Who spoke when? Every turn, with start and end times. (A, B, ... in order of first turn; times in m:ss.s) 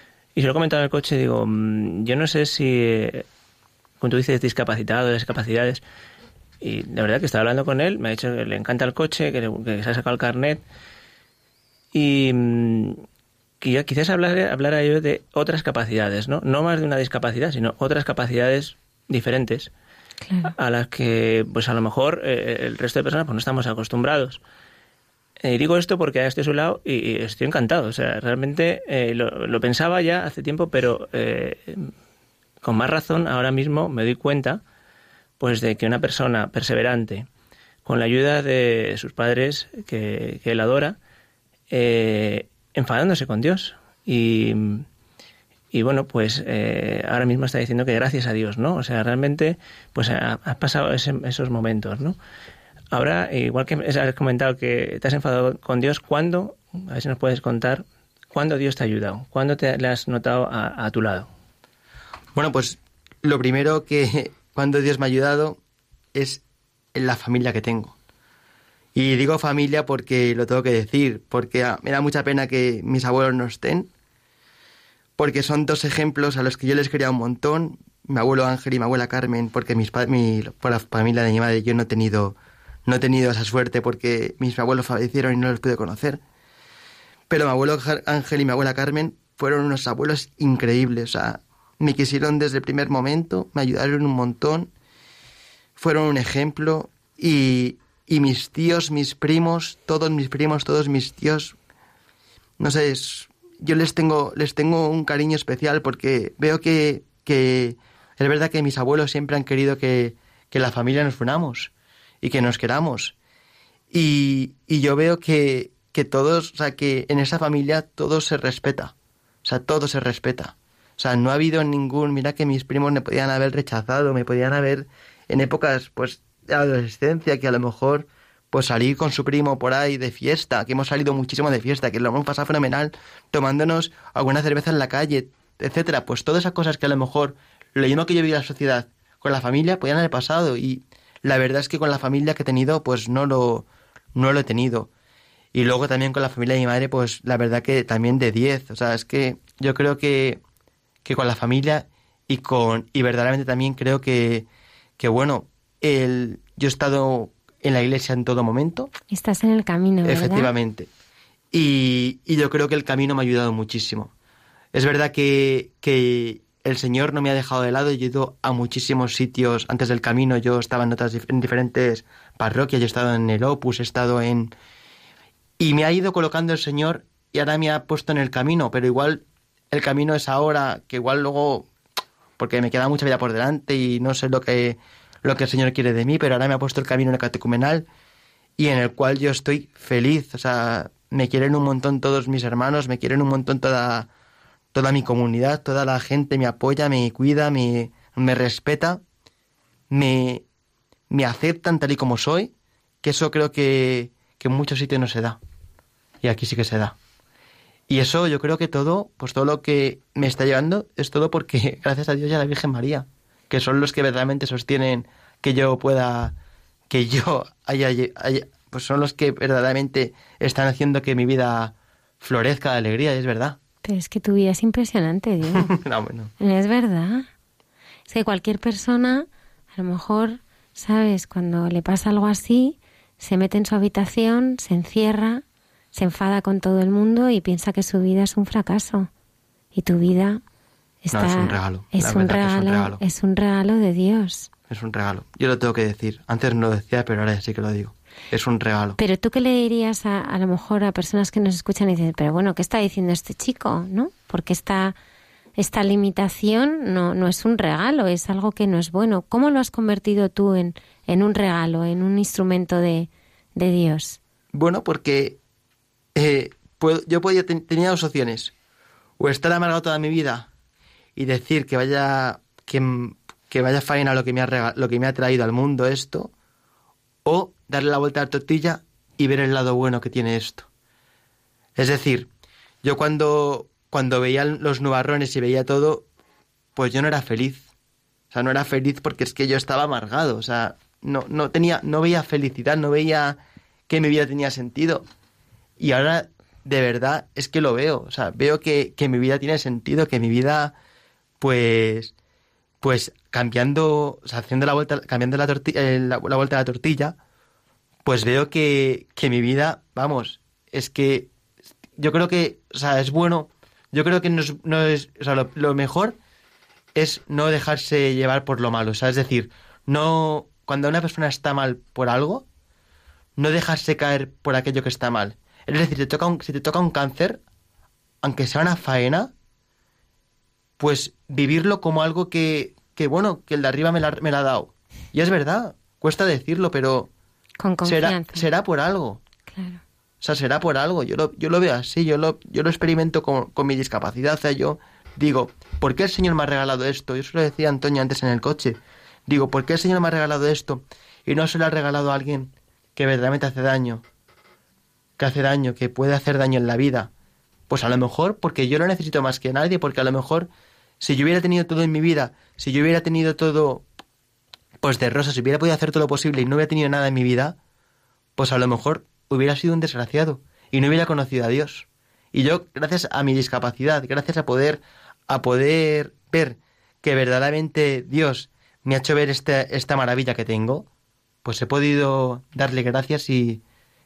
0:00.3-0:03.2 A
0:04.0-0:05.8 A
0:06.6-0:10.6 A
0:11.9-0:13.0 A
0:13.6-0:19.7 A
0:20.2-0:20.5 B
0:20.6-0:24.4 A
0:25.4-0:31.9 A
0:32.6-0:34.6 A
0:35.4-0:37.3 A
0:37.8-0:41.0 A
0:41.7-0:44.8 A
0:45.7-0:52.2 A
0:52.9-1:01.3 A
1:02.3-1:05.6 C
1:06.1-1:06.4 C
1:06.9-1:07.9 C
1:08.9-1:13.9 C
1:15.2-1:26.2 C
1:27.3-1:34.7 C
1:35.8-1:41.5 C
1:42.6-1:53.1 C
1:53.9-1:58.9 C
1:59.4-2:24.9 C
2:25.5-2:30.4 C
2:31.0-2:34.4 C
2:35.0-2:38.9 C
2:39.1-2:40.5 B
2:40.0-2:40.9 C
2:41.5-2:44.1 C
2:44.7-2:54.5 C
2:55.6-3:01.7 C
3:02.4-3:07.9 C
3:08.6-3:14.1 C
3:14.7-3:19.0 C
3:19.9-3:20.4 C
3:21.1-3:22.5 C
3:23.0-3:25.4 C
3:26.2-3:26.9 C
3:27.9-3:36.4 C
3:36.9-3:43.6 C
3:43.8-3:45.7 B
3:45.5-3:46.3 C
3:46.4-3:47.3 B
3:48.1-3:55.4 B
3:55.9-3:59.1 B
3:59.7-4:00.4 B
4:01.0-4:04.5 B
4:01.1-4:03.0 C
4:04.7-4:09.0 C
4:09.0-4:14.9 B
4:15.6-4:24.2 B
4:24.5-4:25.4 C
4:26.1-4:28.5 C
4:29.2-4:30.5 C
4:31.2-4:36.3 C
4:37.2-4:40.7 C
4:41.8-4:42.3 C
4:42.8-4:46.0 C
4:46.8-4:47.6 C
4:48.3-4:55.0 C
4:55.8-5:00.7 C
5:01.4-5:02.1 C
5:02.8-5:07.2 C
5:08.0-5:11.3 C
5:12.0-5:16.2 C
5:16.9-5:22.4 C
5:23.4-5:27.4 C
5:28.2-5:29.3 C
5:30.8-5:37.1 C
5:37.6-5:38.5 B
5:37.8-5:39.2 C
5:39.5-5:39.8 B
5:40.2-5:54.0 C
5:55.2-5:57.1 C
5:57.7-6:00.5 C
6:01.0-6:03.8 C
6:04.8-6:07.6 C
6:08.4-6:20.8 C
6:21.4-6:23.6 C